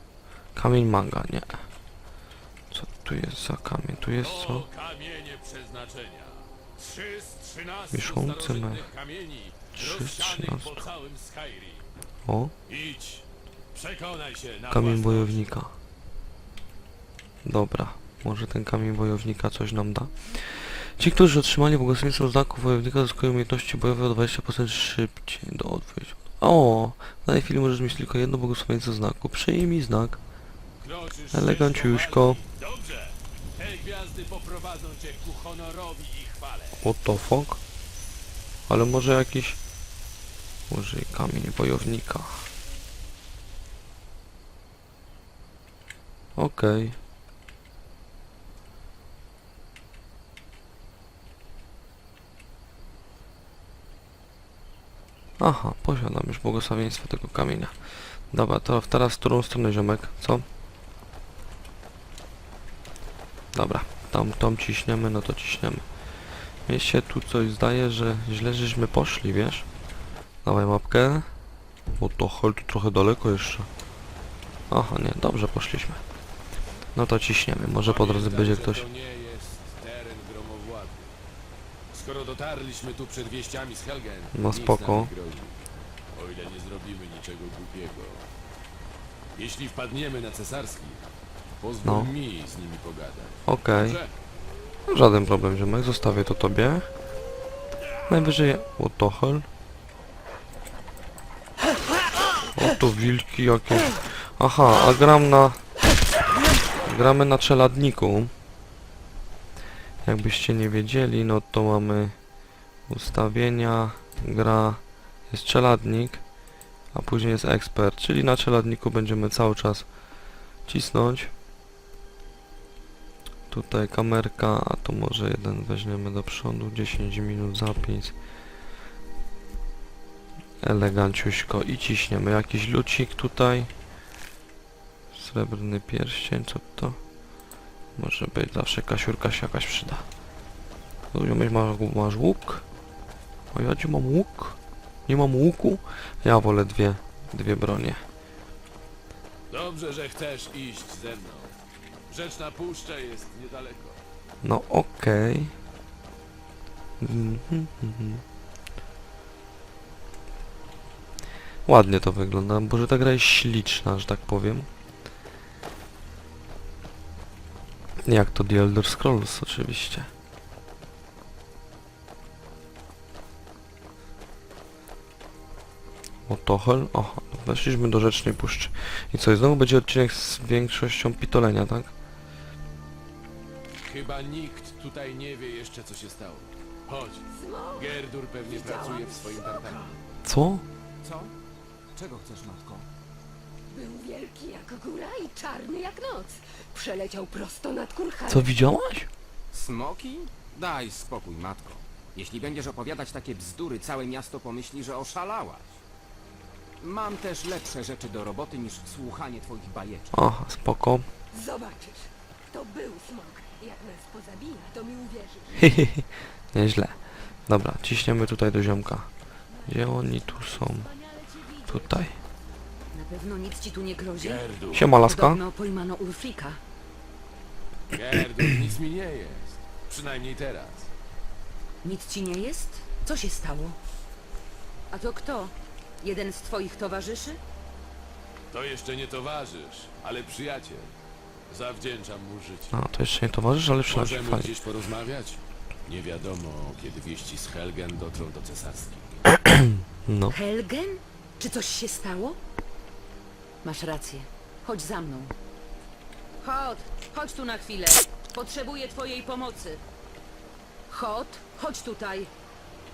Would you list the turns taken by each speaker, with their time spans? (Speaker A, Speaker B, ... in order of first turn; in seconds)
Speaker A: 0.5-1.6, 2.7-4.7, 7.9-8.9, 9.8-10.8, 12.2-12.5, 14.7-15.7, 17.4-30.2, 31.3-32.4, 36.8-37.6, 38.7-39.6, 40.7-42.4, 46.4-47.0, 55.4-57.8, 58.3-60.4, 63.5-65.8, 66.7-69.7, 70.4-71.3, 72.0-73.7, 74.7-76.0, 76.9-78.8, 84.3-85.1, 91.8-92.1, 93.5-94.0, 94.9-96.9, 98.1-99.5, 102.5-105.6, 106.8-108.3, 110.0-112.2, 112.9-116.2, 116.9-119.9, 120.7-121.3, 123.5-128.1, 130.6-133.7, 135.1-137.0, 137.9-140.0, 141.1-142.6, 143.5-148.0, 154.4-155.5, 157.0-158.2, 161.7-164.7, 168.0-170.1, 176.3-181.9, 190.2-190.6, 198.3-199.1, 210.1-211.1, 215.6-219.1, 219.7-220.9, 221.7-222.2, 224.7-225.4, 242.7-244.5, 249.3-250.3
Speaker B: 4.2-11.8, 12.7-15.5, 30.8-36.8, 77.8-81.1, 81.9-85.5, 86.1-88.3, 89.3-91.0, 91.6-94.1, 149.5-151.5, 152.1-154.0, 183.8-189.9, 224.2-224.9, 227.9-230.9, 238.5-240.9, 241.5-242.8, 243.9-249.2
Speaker C: 187.4-187.8, 188.5-189.6, 193.7-198.3, 212.7-213.0, 213.6-214.7
Speaker D: 191.0-191.3, 191.9-192.8, 199.5-205.8, 206.8-210.2
Speaker E: 222.9-224.4, 225.0-226.6, 231.8-233.8, 234.9-237.4, 250.3-252.4, 253.6-255.3, 256.4-259.8, 260.9-262.3